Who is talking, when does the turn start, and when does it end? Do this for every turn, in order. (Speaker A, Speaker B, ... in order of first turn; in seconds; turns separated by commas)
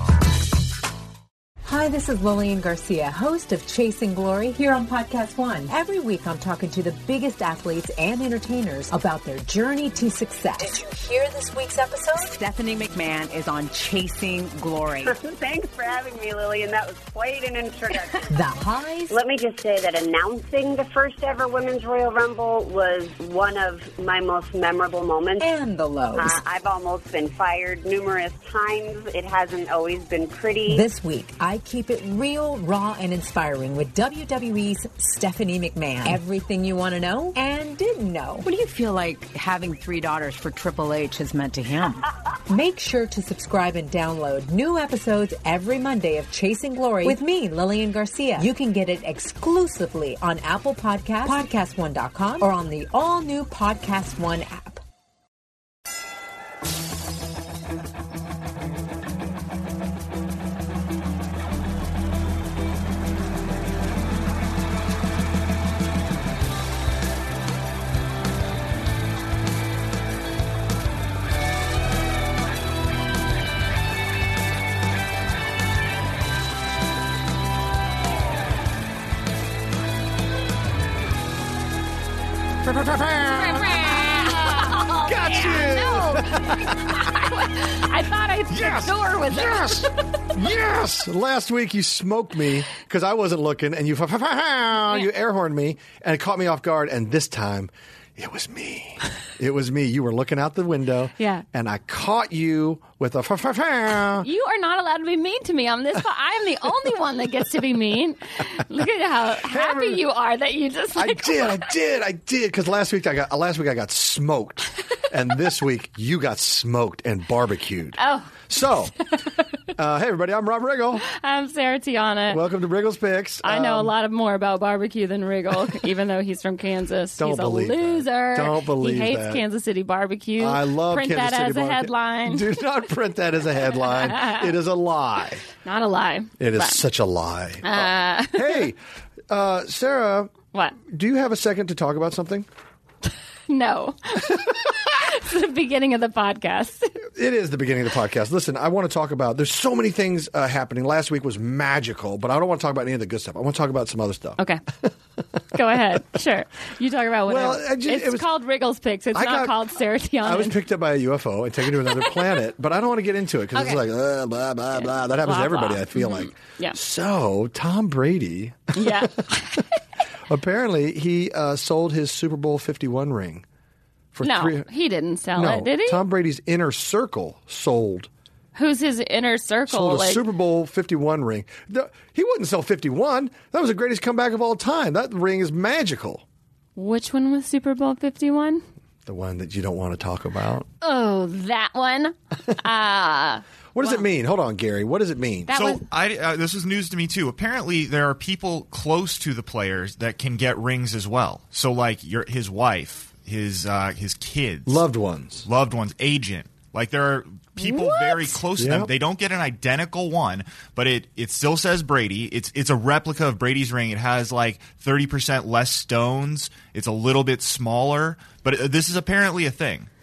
Speaker A: 1.6-15.2, Speaker B: 15.1-18.3, Speaker A: 18.3-19.2, Speaker B: 19.1-25.4, Speaker A: 25.4-26.4, Speaker B: 26.2-30.9, Speaker A: 30.7-38.5, Speaker C: 38.4-42.1, Speaker A: 42.5-54.8, Speaker D: 82.6-87.2, Speaker E: 83.3-89.9, Speaker D: 88.5-104.3, Speaker E: 101.2-101.4, Speaker E: 104.2-111.7, Speaker D: 109.4-110.0, Speaker D: 111.0-118.9, Speaker E: 118.0-118.5, Speaker D: 119.8-121.1, Speaker E: 121.0-122.4, Speaker D: 122.3-123.9, Speaker E: 123.4-132.5, Speaker D: 127.2-129.4, Speaker D: 130.4-135.5, Speaker E: 133.8-134.5, Speaker E: 135.6-136.9, Speaker D: 136.4-142.5, Speaker E: 137.6-138.7, Speaker E: 143.5-146.9, Speaker D: 147.1-154.9, Speaker E: 154.4-154.6, Speaker E: 155.5-160.6, Speaker D: 157.3-158.3, Speaker D: 159.1-159.6, Speaker D: 160.2-169.6, Speaker E: 163.5-163.8, Speaker E: 164.8-166.8, Speaker E: 168.7-169.8, Speaker D: 170.3-173.4, Speaker D: 174.1-174.7, Speaker E: 174.2-176.0, Speaker D: 175.3-178.1, Speaker E: 178.6-180.2, Speaker D: 179.7-186.2, Speaker E: 186.8-188.6, Speaker D: 189.1-190.7, Speaker E: 190.8-194.1, Speaker D: 193.8-195.5, Speaker E: 195.5-195.8, Speaker F: 195.5-204.8, Speaker D: 204.7-205.5, Speaker F: 205.5-219.9, Speaker E: 207.6-208.4, Speaker D: 208.6-208.9